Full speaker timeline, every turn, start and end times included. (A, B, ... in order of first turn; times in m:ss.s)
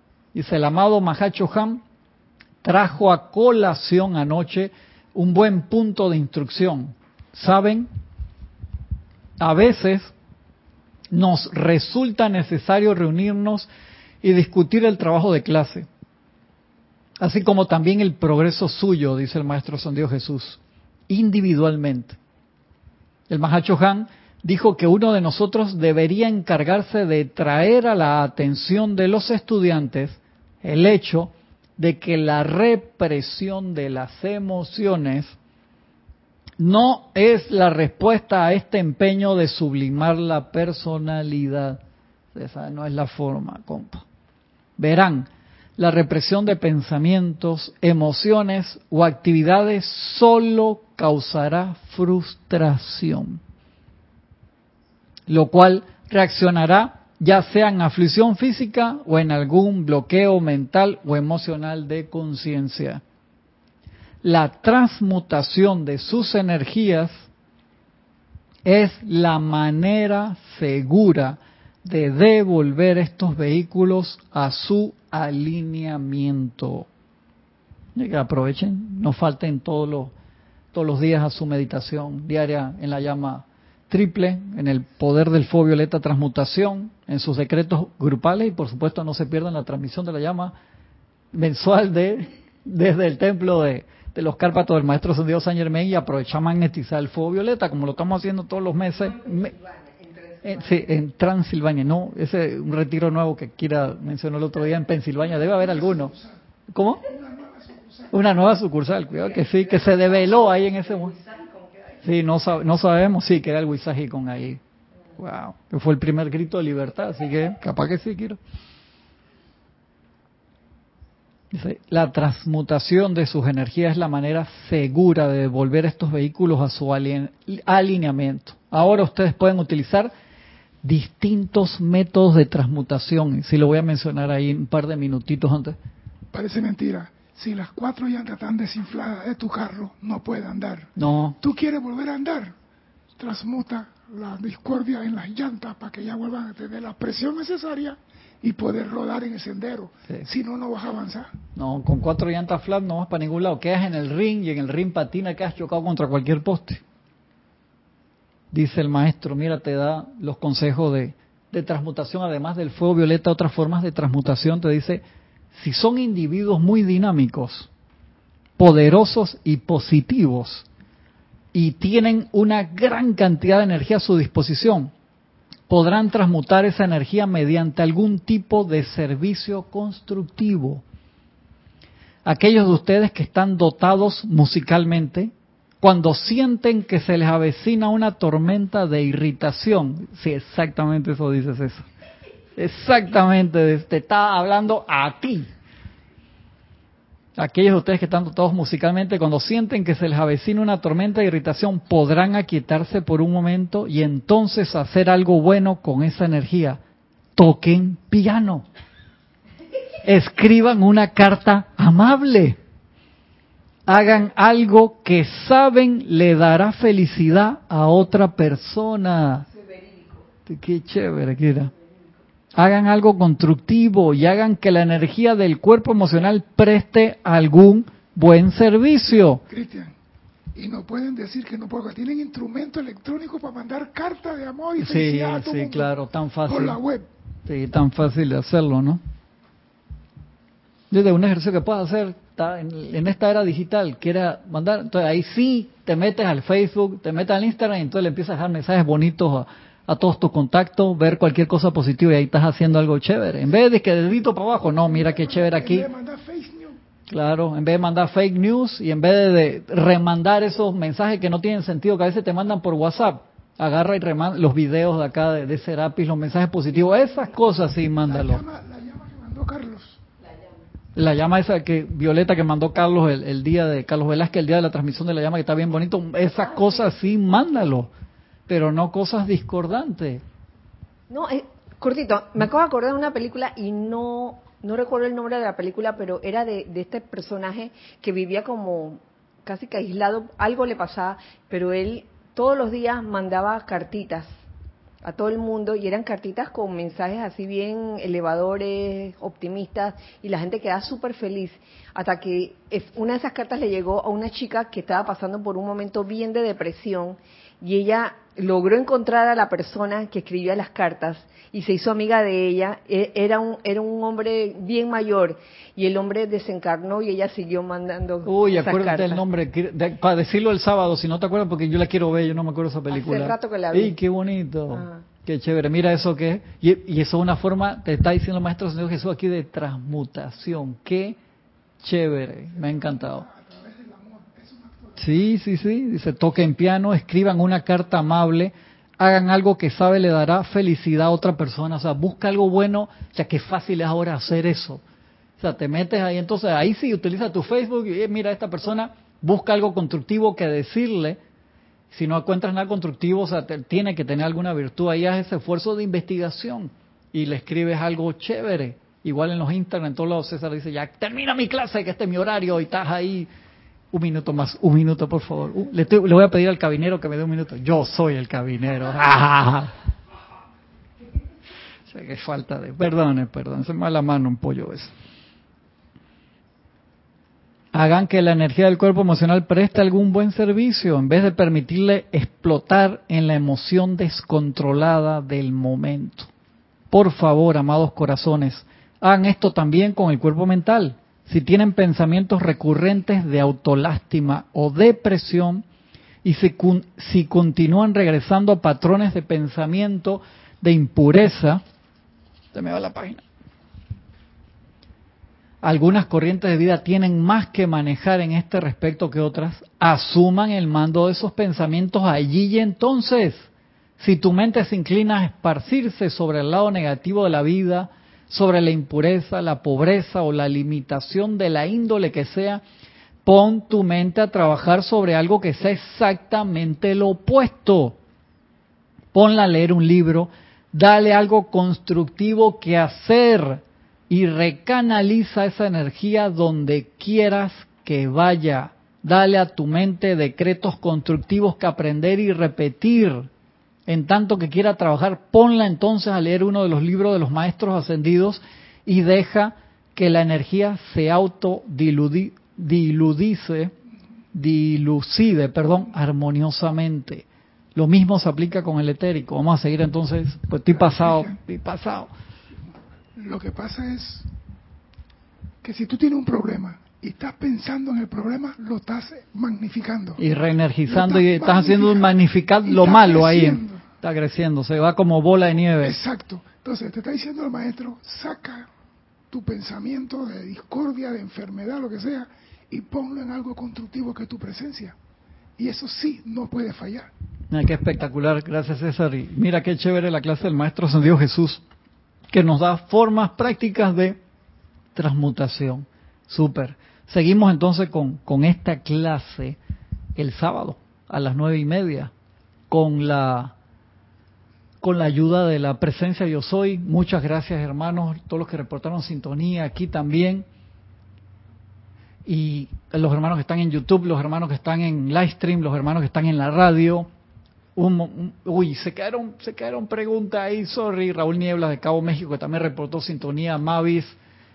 0:00.3-0:01.8 A
0:02.6-0:07.9 A
0:09.4-0:10.1 A
0:11.1-0:13.7 A
0:14.2-0:15.9 A
0:17.2-0:22.2 A
0:23.3-0:35.3 A
0:36.6-0:41.8 A
0:42.3-0:44.0 A
0:44.8-0:53.4 A
0:55.3-1:03.0 A
1:04.2-1:07.3 A
1:08.6-1:16.9 A
1:18.0-1:20.1 A
1:20.7-1:30.5 A
1:31.3-1:39.5 A
1:39.4-1:40.8 B
1:40.4-1:46.1 A
1:45.6-1:46.3 C
1:46.7-1:47.1 A
1:47.0-1:48.1 C
1:48.1-1:51.1 A
1:51.1-1:51.6 B
1:52.0-1:54.6 A
1:55.2-1:58.4 A
2:01.5-2:10.1 A
2:10.8-2:15.8 A
2:16.3-2:22.5 C
2:21.0-2:21.4 A
2:23.2-2:31.3 C
2:31.5-2:36.8 A
2:38.5-2:45.0 A
2:45.5-2:47.7 A
2:48.6-2:50.7 A
2:51.5-2:54.9 A
2:55.7-3:00.8 A
3:02.2-3:11.8 A
3:12.6-3:15.5 A
3:17.4-3:26.8 A
3:27.4-3:28.6 A
3:30.0-3:32.6 A
3:33.9-3:39.4 A
3:40.4-3:41.7 A
3:42.5-3:49.4 A
3:49.5-3:49.9 C
3:50.5-3:55.9 C
3:54.8-3:56.8 A
3:56.5-3:57.1 C
3:57.4-3:59.0 A
4:00.9-4:15.9 A
4:14.8-4:16.8 C
4:17.1-4:28.4 A
4:28.0-4:30.0 C
4:30.9-4:37.9 A
4:38.5-4:40.2 A
4:41.1-4:54.3 B
4:55.0-5:19.2 B
5:18.2-5:31.2 A
5:22.9-5:24.0 B
5:24.7-5:25.0 B
5:31.8-5:33.3 A
5:32.6-5:35.1 C
5:35.0-5:44.8 A
5:45.4-5:51.2 A
5:51.9-6:03.3 A
6:03.9-6:09.7 A
6:11.9-6:14.9 A
6:17.7-6:26.3 A
6:26.9-6:35.6 A
6:36.2-6:41.6 A
6:42.5-6:43.2 A
6:45.6-7:02.6 A
7:03.2-7:08.0 A
7:09.1-7:23.3 A
7:23.9-7:33.7 A
7:34.3-7:42.1 A
7:40.9-7:41.3 C
7:43.2-7:44.3 C
7:45.6-7:50.2 C
7:50.2-7:56.0 A
7:50.9-7:53.8 C
7:55.8-7:58.7 C
7:59.3-8:05.0 C
8:05.6-8:07.1 C
8:07.5-8:11.6 A
8:12.3-8:14.2 A
8:14.9-8:19.6 A
8:20.2-8:22.1 A
8:22.7-8:23.5 A
8:24.8-8:30.4 A
8:32.2-8:37.1 A
8:37.8-8:44.2 A